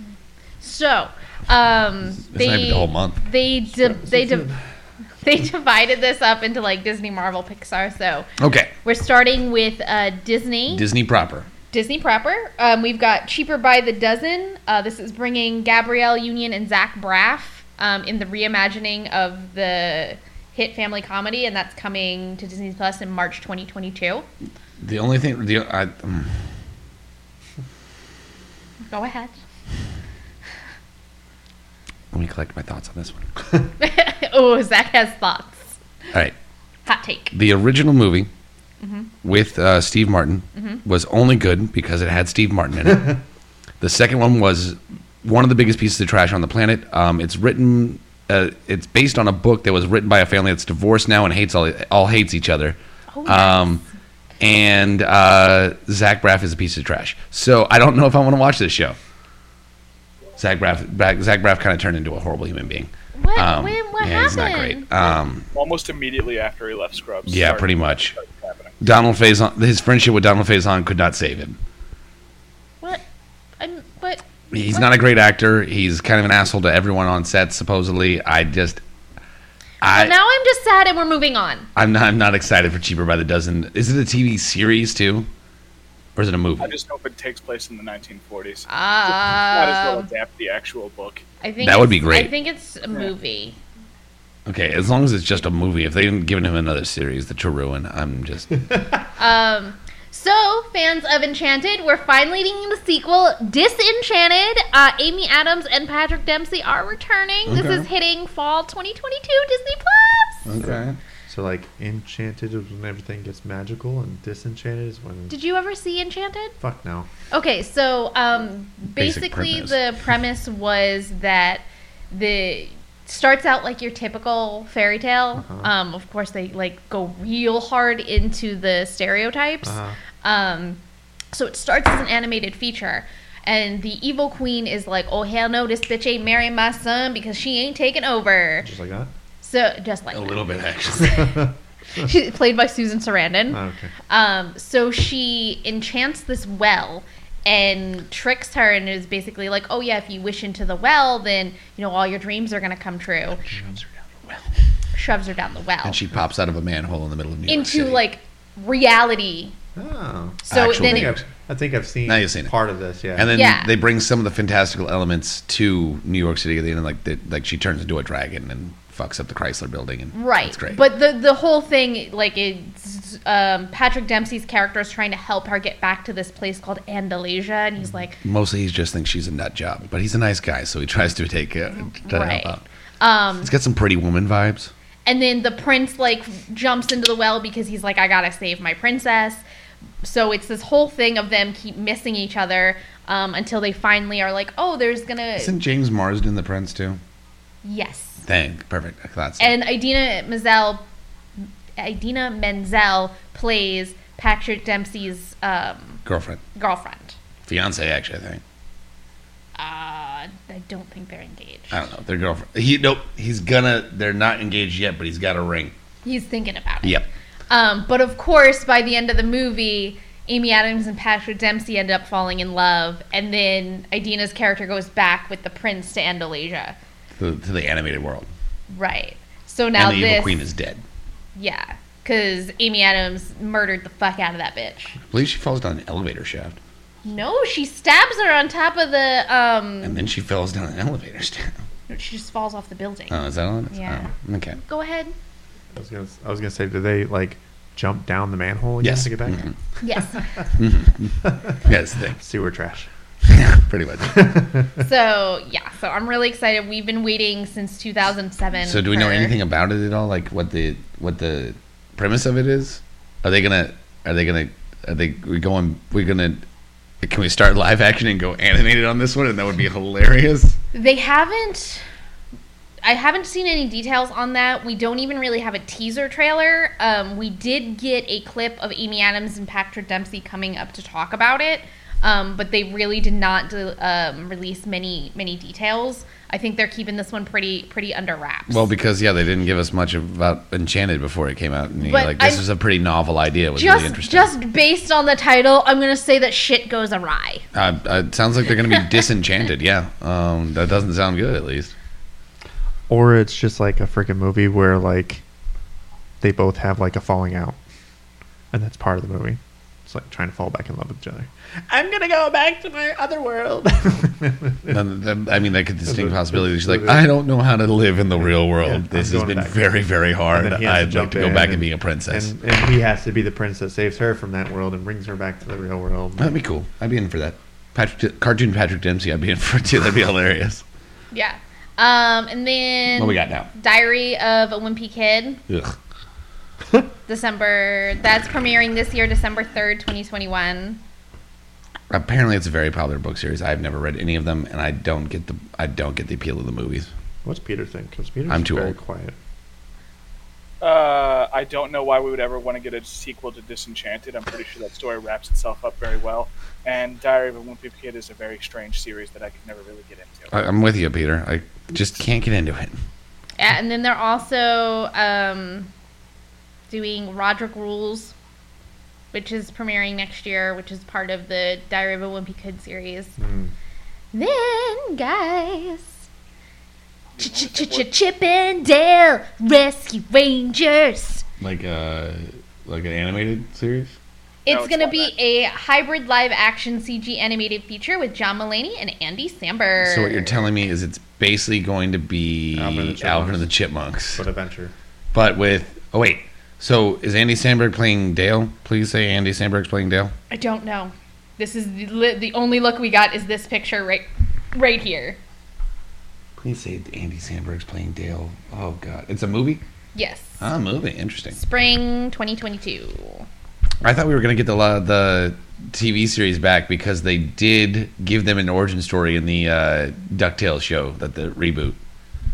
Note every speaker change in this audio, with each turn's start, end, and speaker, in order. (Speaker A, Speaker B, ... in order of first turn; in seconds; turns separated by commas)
Speaker A: 0.6-4.5, Speaker B: 2.3-3.2, Speaker C: 4.0-4.5, Speaker A: 5.2-8.3, Speaker B: 8.4-8.7, Speaker A: 8.8-10.8, Speaker B: 10.7-11.5, Speaker A: 11.7-24.2, Speaker B: 24.8-26.4, Speaker A: 28.9-29.3, Speaker B: 32.1-33.3, Speaker A: 33.8-35.7, Speaker A: 36.9-37.3, Speaker B: 37.3-38.3, Speaker A: 38.8-39.1, Speaker B: 39.2-43.2, Speaker A: 40.5-40.8, Speaker B: 43.8-53.8, Speaker A: 53.1-53.8, Speaker B: 54.4-59.0, Speaker B: 60.4-65.5, Speaker A: 63.1-64.9, Speaker D: 65.5-68.8, Speaker B: 67.2-68.2, Speaker B: 68.8-71.6, Speaker A: 73.6-74.8, Speaker B: 74.5-78.8, Speaker B: 79.8-80.1, Speaker A: 79.8-81.7, Speaker B: 81.8-85.3, Speaker B: 86.2-86.7, Speaker D: 86.6-91.2, Speaker A: 88.7-90.1, Speaker A: 91.4-93.6, Speaker B: 91.6-92.3, Speaker B: 94.5-98.6, Speaker A: 99.2-110.5, Speaker B: 107.5-107.8, Speaker B: 110.4-111.0, Speaker C: 110.6-115.3, Speaker A: 115.3-116.5, Speaker C: 116.6-117.1, Speaker A: 117.3-130.8, Speaker B: 118.9-119.8, Speaker C: 125.4-125.7, Speaker C: 129.6-130.0, Speaker A: 131.3-138.7, Speaker C: 138.6-139.1, Speaker A: 139.4-140.4, Speaker B: 140.1-141.4, Speaker A: 141.0-141.3, Speaker A: 141.9-153.4, Speaker C: 143.5-143.9, Speaker A: 154.9-156.0, Speaker B: 155.8-158.0, Speaker A: 157.5-159.6, Speaker C: 159.8-163.3, Speaker A: 160.5-161.1, Speaker B: 160.5-161.2, Speaker B: 162.1-162.5, Speaker B: 163.2-170.8, Speaker A: 163.3-163.7, Speaker A: 170.1-178.2, Speaker B: 178.2-182.6, Speaker A: 181.8-183.5, Speaker B: 183.4-184.7, Speaker A: 185.1-189.4, Speaker A: 190.0-195.5, Speaker B: 195.4-197.0, Speaker A: 197.6-198.2, Speaker B: 198.2-199.6, Speaker A: 199.4-200.8, Speaker A: 201.8-206.0, Speaker B: 206.1-206.4, Speaker A: 206.5-207.2, Speaker B: 207.4-208.4, Speaker A: 209.6-211.9, Speaker B: 211.7-215.7, Speaker A: 216.0-226.8, Speaker B: 227.2-228.3, Speaker A: 228.7-230.4, Speaker B: 229.7-230.8, Speaker A: 231.3-234.9, Speaker B: 235.1-236.6, Speaker A: 237.0-240.0, Speaker B: 239.8-241.6, Speaker A: 241.9-243.2, Speaker B: 243.1-244.6, Speaker A: 243.7-245.1, Speaker C: 245.7-249.4, Speaker B: 248.8-249.6, Speaker A: 249.8-250.4, Speaker B: 250.6-252.2, Speaker C: 251.2-251.5, Speaker C: 252.1-252.9, Speaker B: 253.2-254.2, Speaker C: 254.0-254.8, Speaker A: 254.8-259.3, Speaker B: 258.6-266.4, Speaker B: 267.0-270.6, Speaker A: 270.7-271.8, Speaker A: 272.8-288.6, Speaker B: 288.5-294.3, Speaker A: 291.8-292.4, Speaker A: 293.6-297.4, Speaker B: 297.5-301.7, Speaker C: 302.9-305.2, Speaker C: 306.2-307.6, Speaker C: 308.5-314.8, Speaker B: 314.7-322.3, Speaker C: 315.9-317.1, Speaker C: 318.3-319.6, Speaker C: 320.3-326.4, Speaker B: 326.2-330.6, Speaker A: 331.1-335.4, Speaker B: 332.9-333.5, Speaker B: 335.5-335.8, Speaker A: 337.1-340.8, Speaker B: 341.9-346.9, Speaker C: 347.2-349.1, Speaker B: 348.3-348.8, Speaker D: 350.6-360.4, Speaker B: 360.3-362.8, Speaker A: 363.4-365.7, Speaker A: 366.7-368.1, Speaker A: 369.1-373.1, Speaker C: 373.2-373.5, Speaker A: 374.1-376.0, Speaker D: 377.2-377.9, Speaker A: 377.2-381.2, Speaker B: 381.4-383.9, Speaker A: 384.4-390.5, Speaker D: 384.4-385.1, Speaker B: 389.8-394.2, Speaker C: 392.5-393.5, Speaker C: 394.1-394.7, Speaker B: 395.1-400.1, Speaker A: 400.3-405.2, Speaker B: 406.4-409.6, Speaker A: 409.9-410.4, Speaker B: 410.4-411.4, Speaker A: 411.3-413.2, Speaker B: 413.8-421.8